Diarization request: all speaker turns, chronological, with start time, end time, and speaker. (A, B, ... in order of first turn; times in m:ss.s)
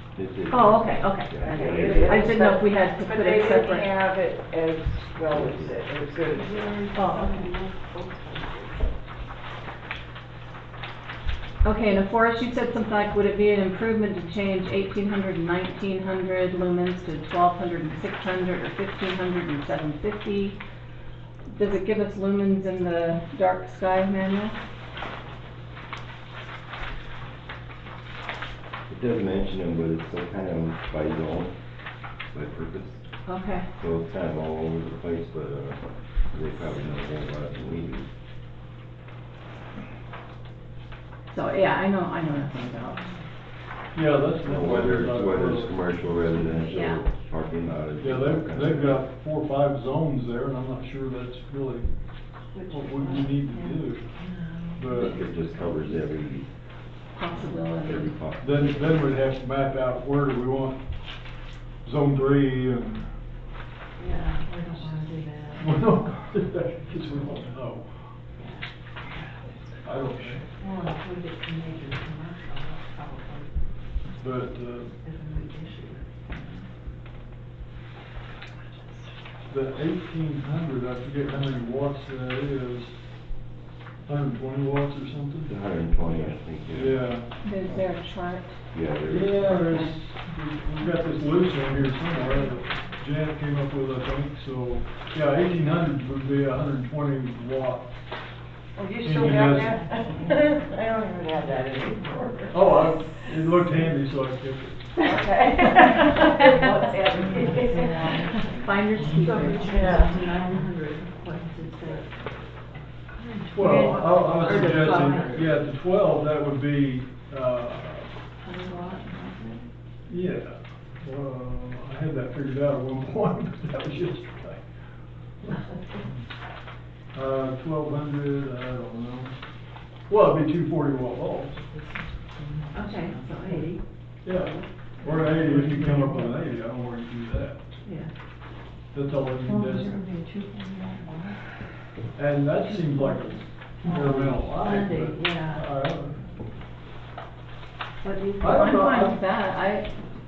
0:00.1-0:02.3 A
0:00.5-0:03.9 B
0:01.4-0:06.9 C
0:05.3-0:05.8 A
0:06.3-0:08.7 D
0:06.9-0:07.5 B
0:11.6-0:20.6 B
0:21.5-0:24.6 B
0:28.9-0:31.5 A
0:32.3-0:33.0 A
0:33.2-0:33.7 B
0:33.7-0:38.1 A
0:41.3-0:43.1 B
0:43.9-0:45.8 E
0:44.4-0:49.0 A
0:46.7-0:47.0 B
0:48.0-0:52.0 E
0:52.5-0:55.1 D
0:52.6-0:54.2 E
0:54.7-0:55.2 E
0:54.9-0:56.5 A
0:57.1-0:58.1 B
0:57.3-0:59.1 A
0:58.4-1:00.8 E
1:01.8-1:03.1 E
1:04.0-1:06.0 D
1:05.5-1:08.1 E
1:08.3-1:13.6 D
1:09.8-1:10.5 E
1:14.2-1:15.0 E
1:15.0-1:16.7 D
1:19.5-1:23.0 E
1:24.1-1:27.8 E
1:25.5-1:27.1 A
1:27.4-1:28.6 B
1:28.7-1:29.9 A
1:29.1-1:37.9 E
1:38.8-1:42.8 C
1:39.0-1:39.8 E
1:42.5-1:45.1 E
1:45.0-1:48.5 C
1:47.6-1:48.6 D
1:47.8-1:50.1 B
1:49.1-1:52.3 D
1:49.5-1:50.2 C
1:53.1-1:55.5 D
1:53.5-1:58.1 E
1:54.5-1:55.2 C
1:58.4-1:59.6 D
2:00.1-2:04.7 E
2:07.1-2:09.4 E
2:10.1-2:11.7 E
2:12.7-2:16.2 D
2:14.2-2:17.8 E
2:17.8-2:18.1 D
2:18.9-2:20.0 E
2:19.5-2:21.4 D
2:22.2-2:26.4 E
2:22.7-2:23.2 D
2:23.8-2:25.7 D
2:28.0-2:29.9 B
2:28.4-2:29.2 E